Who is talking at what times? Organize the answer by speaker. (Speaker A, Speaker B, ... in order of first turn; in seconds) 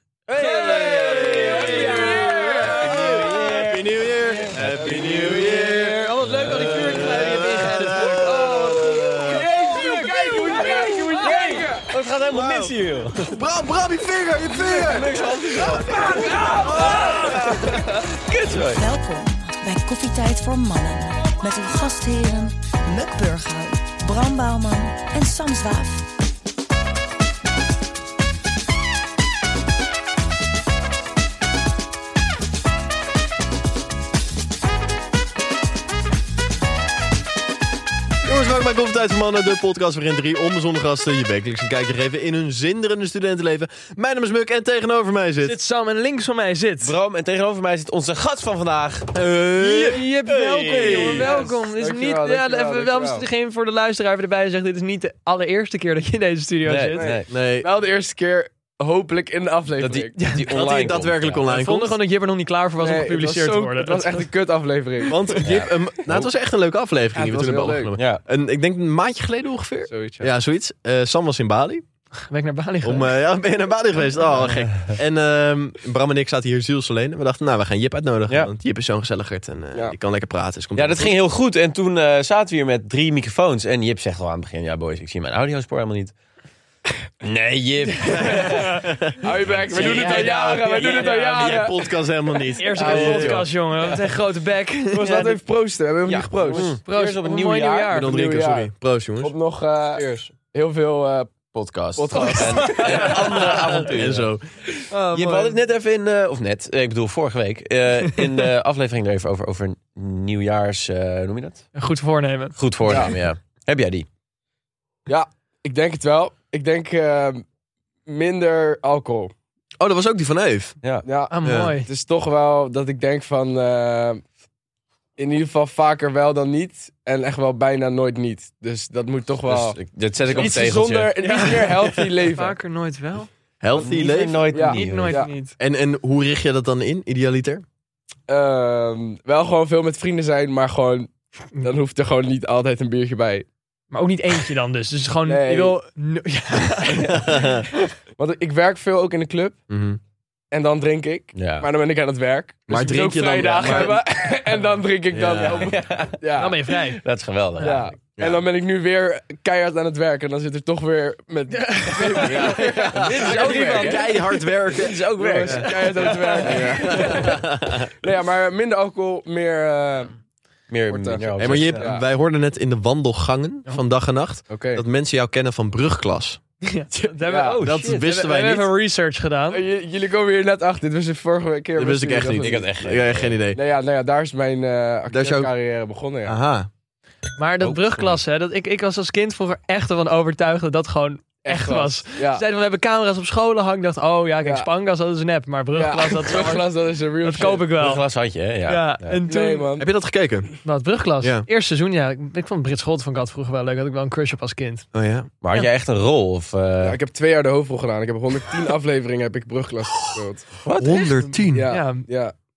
Speaker A: 0.3-13.5, 14.6-18.9, 46.8-49.2, 49.8-51.3, 56.6-57.3, 59.8-61.5, 65.4-66.3, 68.0-68.2, 80.7-86.1, 87.2-89.0, 89.7-91.0, 92.7-94.0, 96.1-97.9, 100.0-100.3, 101.5-104.3, 105.1-111.7, 112.6-114.1, 129.4-131.1, 133.7-135.2, 149.7-150.0, 151.3-151.7, 153.5-153.9, 155.1-156.2, 156.8-157.8, 162.2-167.8, 170.7-171.9, 177.4-178.1, 182.4-183.4, 187.6-188.2, 197.7-199.2, 205.4-207.0, 210.6-211.2
Speaker B: 0.3-3.5, 5.5-11.7, 15.9-17.9, 45.4-46.9, 49.5-57.1, 60.2-60.6, 61.5-64.3, 72.3-73.1, 89.7-91.9, 92.5-95.4, 96.8-98.2, 102.2-103.6, 104.9-105.6, 111.7-113.0, 121.3-121.9, 131.2-133.3, 134.6-135.5, 143.9-147.9, 156.4-157.1, 157.6-157.9, 161.6-164.4, 176.6-179.6, 187.4-198.0, 198.6-199.7, 200.6-204.9, 211.2-212.0
Speaker C: 0.8-9.5, 12.3-17.5, 38.2-45.6, 49.1-51.3, 57.3-57.7, 60.4-62.0, 65.1-71.8, 72.8-81.1, 88.2-89.0, 89.7-93.5, 97.9-99.3, 103.0-104.5, 119.8-120.8, 121.4-121.7, 133.6-134.5, 135.6-137.6, 152.7-154.0, 163.0-163.4, 165.4-167.8, 171.3-176.4, 177.6-178.7, 181.8-183.6, 185.1-185.5, 186.2-186.7, 199.8-200.5, 201.2-201.5, 204.9-205.3, 210.8-211.7
Speaker D: 2.0-2.8, 4.7-7.2, 8.2-11.8, 15.5-17.1, 51.1-53.2, 56.9-60.2, 62.8-65.2, 67.1-68.0, 69.9-70.3, 89.2-91.8, 94.9-96.7, 98.0-98.7, 99.2-101.3, 101.9-103.2, 112.8-113.1, 115.1-117.4, 118.0-119.3, 121.0-124.2, 125.2-129.8, 130.3-132.5, 134.5-135.3, 138.3-143.5, 145.2-145.8, 148.2-149.6, 150.5-156.6, 157.6-164.1, 165.2-167.4, 168.0-170.1, 170.9-172.0, 174.5-174.8, 177.2-177.6, 179.5-182.6, 183.5-186.4, 191.4-192.4, 194.4-194.7, 195.7-197.7, 199.2-199.9, 206.8-210.5, 211.5-212.3
Speaker E: 18.5-26.1